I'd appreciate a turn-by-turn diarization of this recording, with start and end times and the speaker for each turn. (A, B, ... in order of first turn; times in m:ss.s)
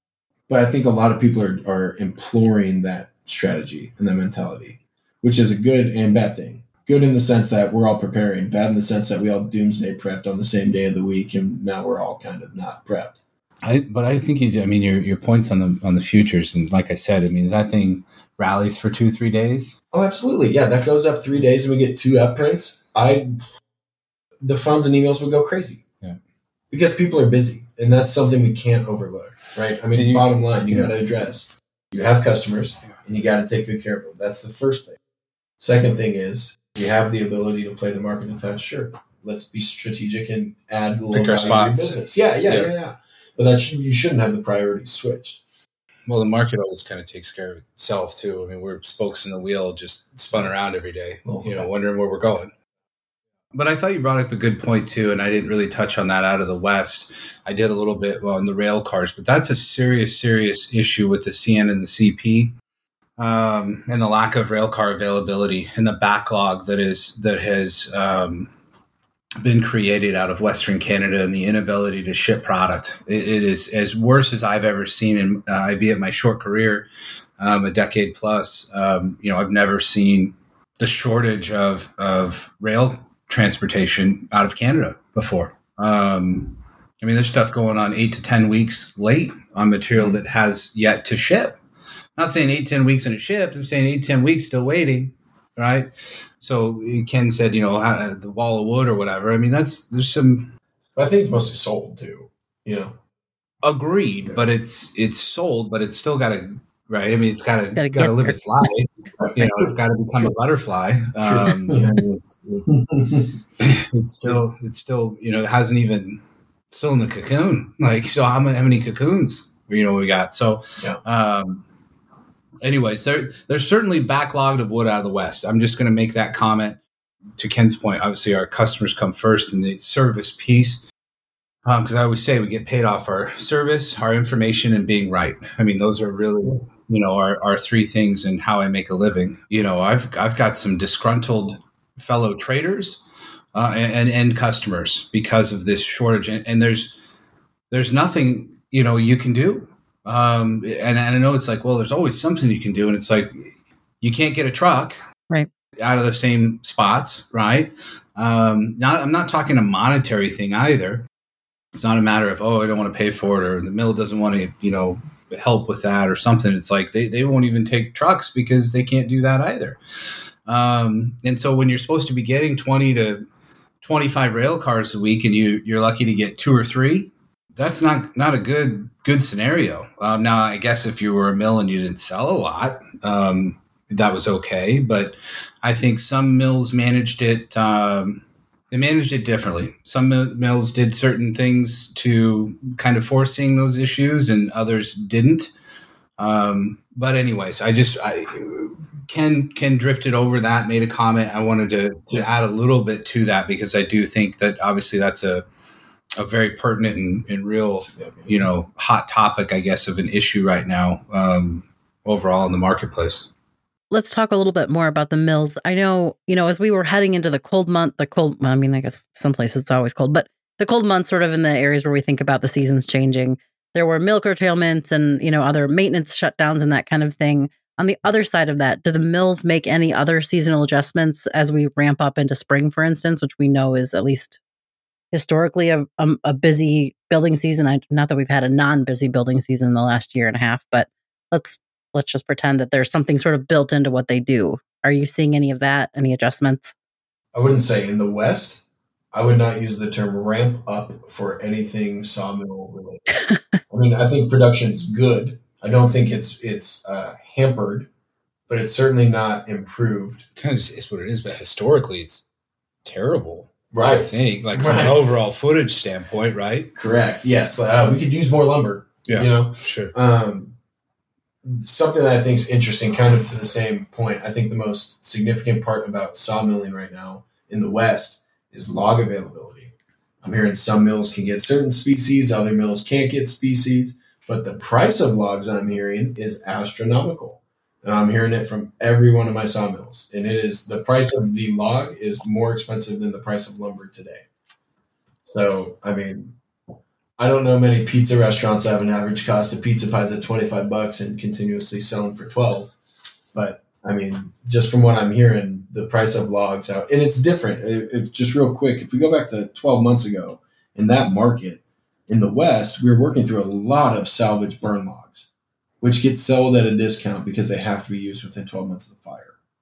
0:00.5-0:13.2 A
0:13.6-0:19.8 B
0:19.9-0:23.4 A
0:24.4-0:25.8 A
0:26.7-0:35.0 A
0:29.9-0:30.9 B
0:35.6-0:45.4 A
0:41.1-0:42.7 B
0:46.1-0:52.5 B
0:51.2-0:51.7 A
0:53.5-1:02.5 B
1:03.2-1:08.5 B
1:09.4-1:16.9 B
1:17.4-1:31.6 B
1:32.2-1:40.5 B
1:41.0-1:42.9 A
1:43.6-1:52.9 B
1:47.8-1:48.4 C
1:49.2-1:50.3 A
1:51.2-1:52.0 A
1:52.7-1:53.3 A
1:53.6-2:01.6 B
2:02.6-2:06.8 B
2:07.4-2:10.8 B
2:11.6-2:23.0 B
2:23.5-2:27.0 B
2:27.7-2:33.5 B
2:34.0-2:35.0 B
2:35.8-2:41.0 B
2:41.7-2:49.8 B
2:50.4-2:53.2 B
2:53.8-3:15.5 B
3:16.2-3:25.4 B
3:26.2-3:33.3 B
3:27.8-3:28.5 A
3:33.9-3:54.4 C
3:55.1-4:06.7 C
4:07.3-4:13.0 A
4:13.1-4:13.6 C
4:13.7-4:17.9 A
4:18.5-4:20.2 A
4:20.4-4:22.2 B
4:22.8-4:26.7 B
4:23.7-4:25.0 A
4:26.7-4:30.5 A
4:29.0-4:29.9 B
4:31.4-4:54.2 A
4:55.2-4:56.4 A
4:57.2-5:02.7 A
5:03.3-5:15.3 A
5:15.8-5:19.3 A